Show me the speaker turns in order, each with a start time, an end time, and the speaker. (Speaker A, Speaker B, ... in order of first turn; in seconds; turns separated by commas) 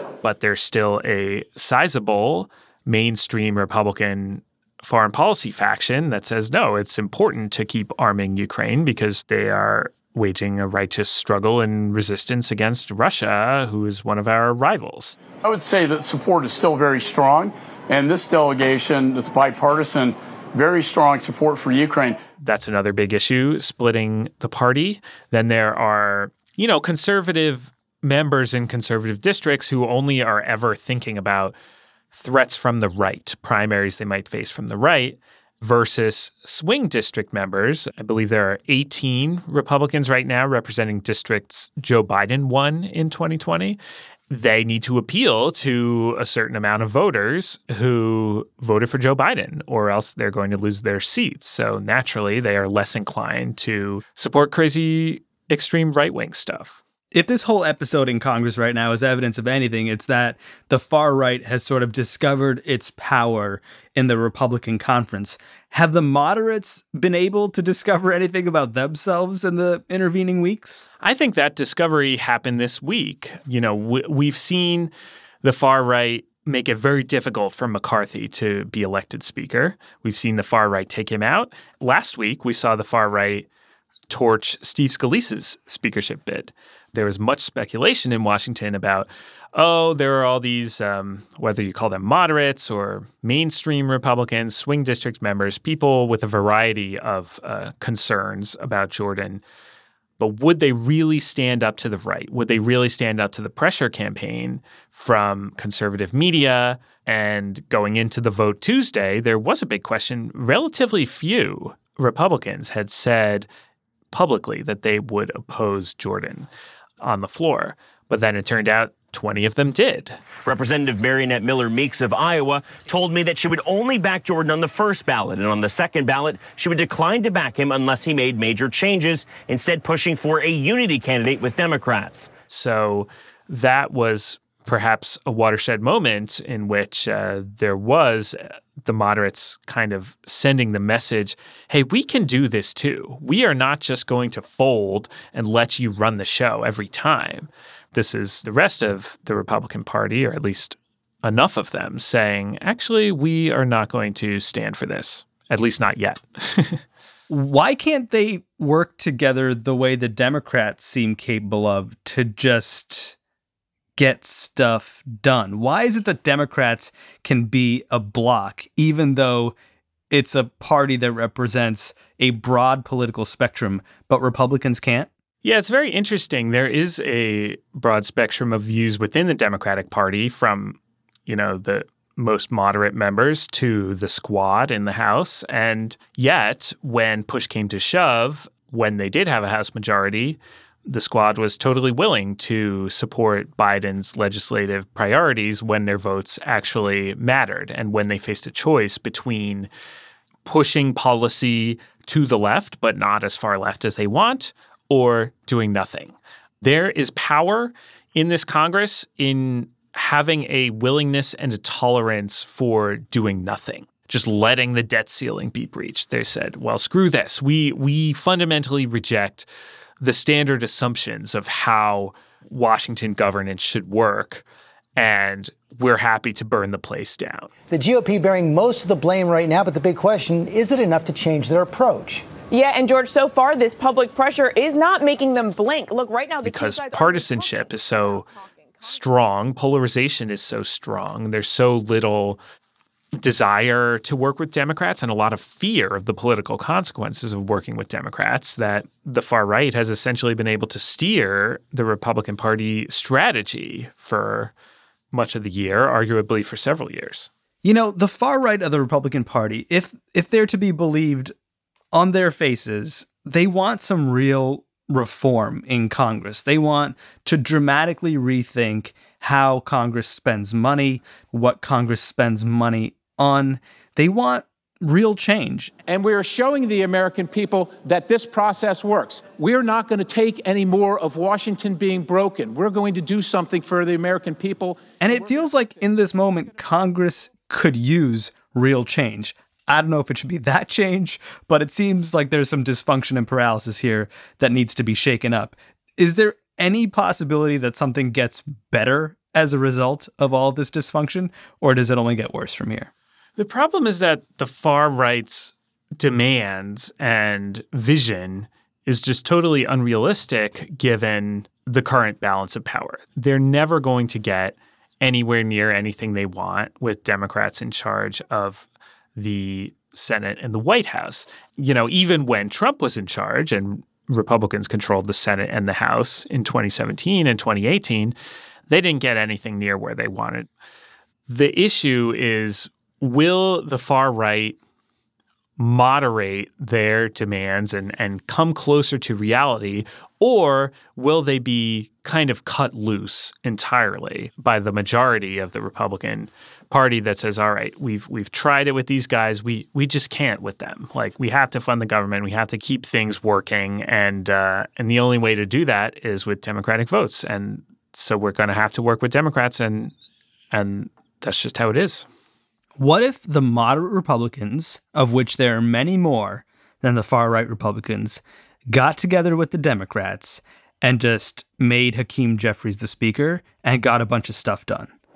Speaker A: 0.2-15.2, Speaker B: 15.4-22.2, Speaker A: 22.4-31.6, Speaker A: 32.1-56.8, Speaker C: 57.1-70.9, Speaker A: 71.0-74.9, Speaker A: 75.4-83.5, Speaker A: 84.1-99.4, Speaker A: 100.2-113.5, Speaker A: 114.1-116.5, Speaker A: 117.0-120.2, Speaker D: 120.4-132.3, Speaker A: 132.5-156.8, Speaker C: 157.3-163.2, Speaker C: 164.0-169.6, Speaker C: 170.1-175.1, Speaker A: 175.4-199.7, Speaker A: 200.4-219.5, Speaker A: 220.0-224.4, Speaker A: 225.0-227.5, Speaker E: 227.7-232.3, Speaker F: 232.5-237.7, Speaker A: 236.4-238.3, Speaker F: 238.3-238.9, Speaker A: 238.8-242.4, Speaker A: 243.2-254.5, Speaker A: 255.1-257.3, Speaker C: 257.6-261.3, Speaker C: 261.9-275.7, Speaker G: 275.9-284.9, Speaker C: 285.0-302.9, Speaker A: 303.4-328.1, Speaker A: 328.7-330.5, Speaker A: 331.3-334.6, Speaker A: 335.6-359.9, Speaker A: 360.5-362.1, Speaker C: 362.8-374.9